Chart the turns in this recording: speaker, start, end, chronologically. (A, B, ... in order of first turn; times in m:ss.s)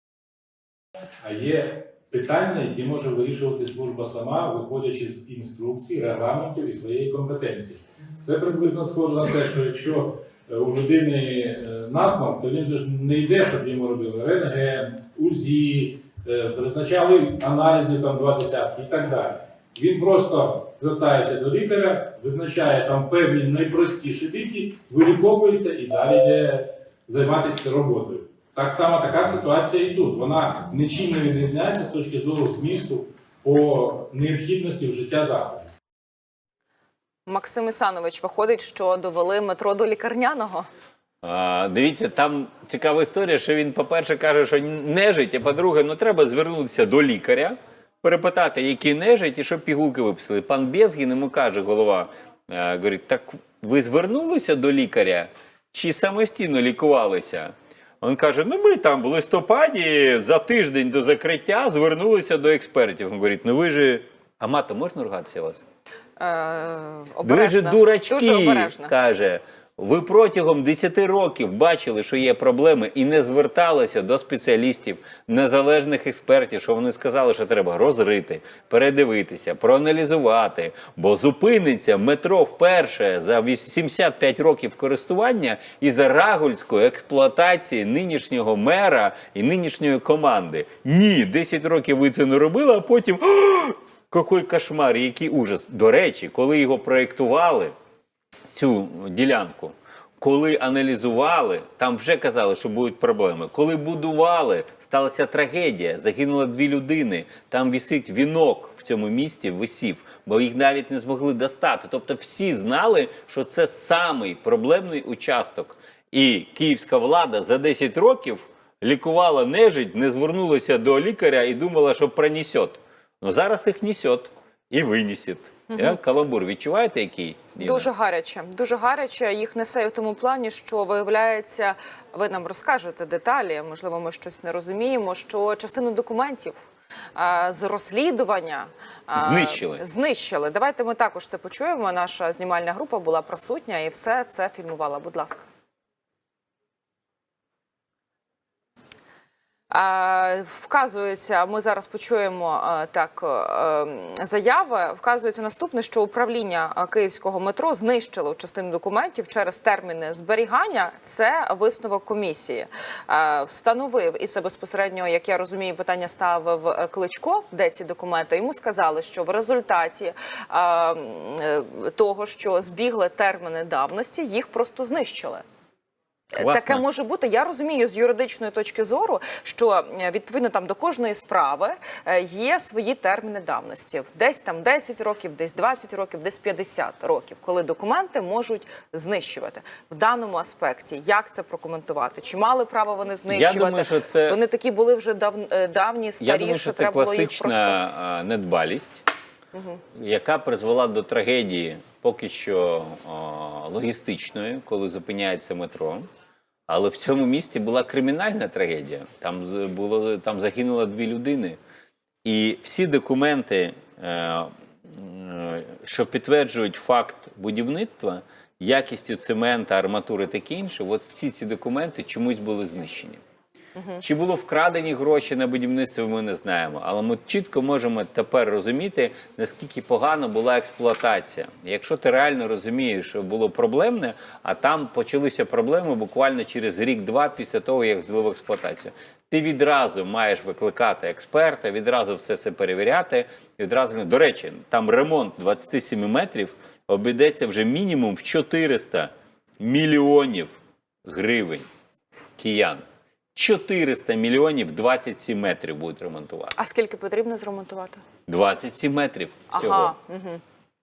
0:01.2-0:35.7 A
0:37.3-0:40.7 B
0:41.2-1:05.6 C
1:06.2-1:08.9 B
1:07.2-1:37.7 C
1:38.5-2:07.9 C
2:07.6-2:16.6 B
2:17.2-2:25.5 B
2:19.1-2:19.8 C
2:29.7-2:55.4 B
2:56.3-3:17.8 B
2:56.4-2:56.8 C
3:13.3-3:14.4 C
3:16.2-3:19.0 C
3:19.5-3:19.8 B
3:19.9-3:26.0 C
3:26.7-3:31.6 C
3:32.2-3:43.2 C
3:43.8-3:44.0 B
3:44.0-4:11.6 C
4:12.4-4:12.8 C
4:13.3-4:16.5 C
4:16.6-4:18.0 B
4:18.3-4:19.9 C
4:19.5-4:20.4 B